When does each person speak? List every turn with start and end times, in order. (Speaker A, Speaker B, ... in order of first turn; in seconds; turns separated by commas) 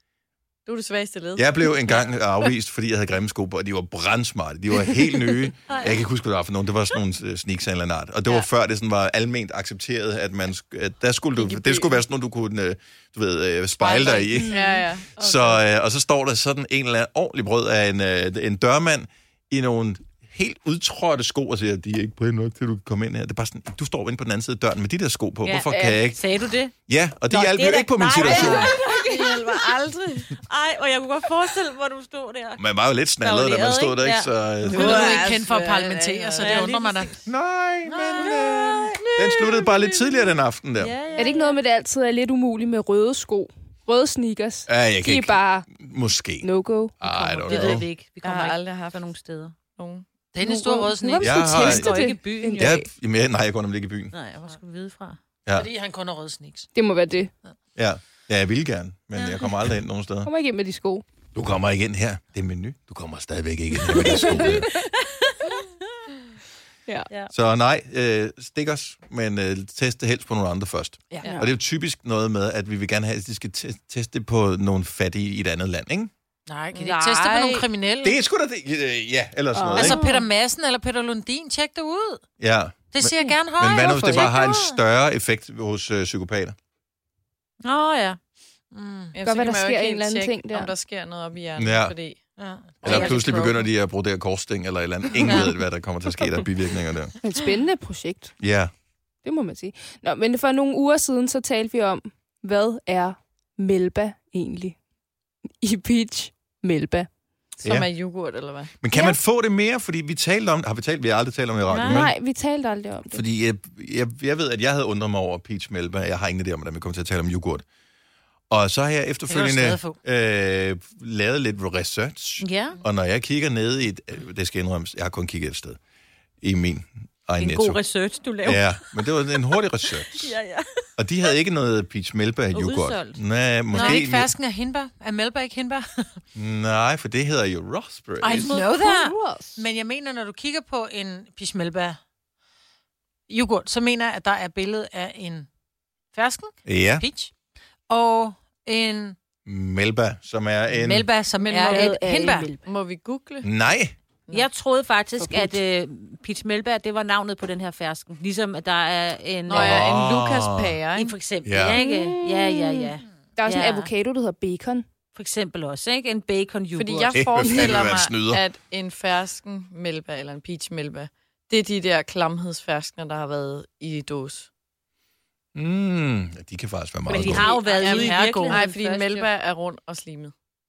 Speaker A: 0.7-2.0, Speaker B: 1.4-14.6, Speaker A: 11.3-12.0, Speaker C: 13.8-14.4, Speaker D: 14.4-14.8, Speaker A: 14.4-15.2, Speaker B: 15.2-26.2, Speaker C: 15.2-15.6, Speaker C: 25.4-26.7, Speaker D: 25.7-26.0, Speaker B: 26.9-28.7, Speaker C: 27.3-29.7, Speaker A: 28.2-30.4, Speaker D: 28.3-29.3, Speaker C: 30.3-32.6, Speaker B: 32.6-35.1, Speaker C: 33.2-35.2, Speaker A: 34.6-36.8, Speaker E: 34.7-37.1, Speaker C: 36.4-37.1, Speaker B: 37.2-40.9, Speaker C: 37.9-39.3, Speaker A: 39.3-39.9, Speaker C: 40.8-41.6, Speaker D: 41.2-45.7, Speaker B: 44.7-46.5, Speaker D: 46.4-47.0, Speaker B: 47.0-47.9, Speaker C: 47.0-49.5, Speaker A: 47.5-49.0, Speaker A: 49.7-50.0, Speaker E: 50.3-51.4, Speaker D: 50.4-52.9, Speaker B: 51.2-52.0, Speaker C: 51.2-52.8, Speaker B: 52.6-54.1, Speaker C: 54.1-55.2, Speaker E: 55.5-56.7, Speaker D: 56.7-57.3, Speaker B: 57.8-60.3, Speaker C: 59.1-59.5, Speaker D: 60.2-61.0, Speaker B: 61.3-64.7, Speaker D: 63.9-64.8, Speaker C: 63.9-64.5, Speaker B: 67.3-76.1, Speaker E: 76.5-78.2, Speaker C: 76.7-77.7, Speaker B: 78.0-80.0, Speaker D: 79.5-80.2, Speaker E: 79.7-82.2, Speaker B: 82.4-86.5, Speaker E: 82.9-84.7, Speaker C: 83.7-84.6, Speaker D: 83.8-84.2, Speaker C: 87.6-88.2, Speaker E: 88.7-89.1, Speaker A: 89.1-92.2, Speaker D: 89.2-90.7, Speaker B: 91.6-91.9, Speaker E: 92.4-92.8, Speaker A: 92.8-93.6, Speaker B: 92.8-97.1, Speaker C: 92.9-93.5, Speaker C: 95.2-95.5, Speaker D: 97.2-98.3, Speaker B: 98.4-98.7, Speaker D: 99.2-104.8, Speaker D: 105.6-107.1, Speaker A: 107.6-108.7, Speaker B: 107.6-107.9, Speaker B: 108.8-112.1, Speaker D: 108.9-109.2, Speaker C: 111.7-112.1, Speaker D: 111.8-113.2, Speaker B: 113.1-117.6, Speaker B: 118.5-125.8, Speaker E: 119.3-120.0, Speaker C: 122.4-122.8, Speaker B: 126.4-127.8, Speaker C: 127.4-128.8, Speaker B: 128.4-130.3, Speaker C: 130.0-130.8, Speaker B: 131.0-134.3, Speaker C: 132.5-133.2, Speaker C: 133.7-134.0, Speaker E: 133.7-136.2, Speaker B: 136.3-138.5, Speaker E: 138.2-142.0, Speaker D: 138.5-139.6, Speaker E: 143.3-145.5, Speaker E: 146.1-147.3, Speaker B: 146.7-147.0, Speaker E: 147.9-149.2, Speaker B: 149.4-151.1, Speaker E: 150.7-152.5, Speaker A: 151.4-153.5, Speaker C: 151.5-152.6, Speaker B: 153.4-153.9, Speaker C: 154.3-160.0, Speaker D: 155.2-155.6, Speaker A: 159.5-161.2, Speaker B: 159.5-160.8, Speaker C: 160.9-163.9, Speaker B: 161.4-161.8, Speaker D: 161.8-164.8, Speaker C: 165.1-167.2, Speaker A: 166.7-174.5, Speaker B: 167.1-168.4, Speaker B: 175.5-177.5, Speaker C: 177.1-179.3, Speaker E: 177.1-178.6, Speaker A: 177.2-180.3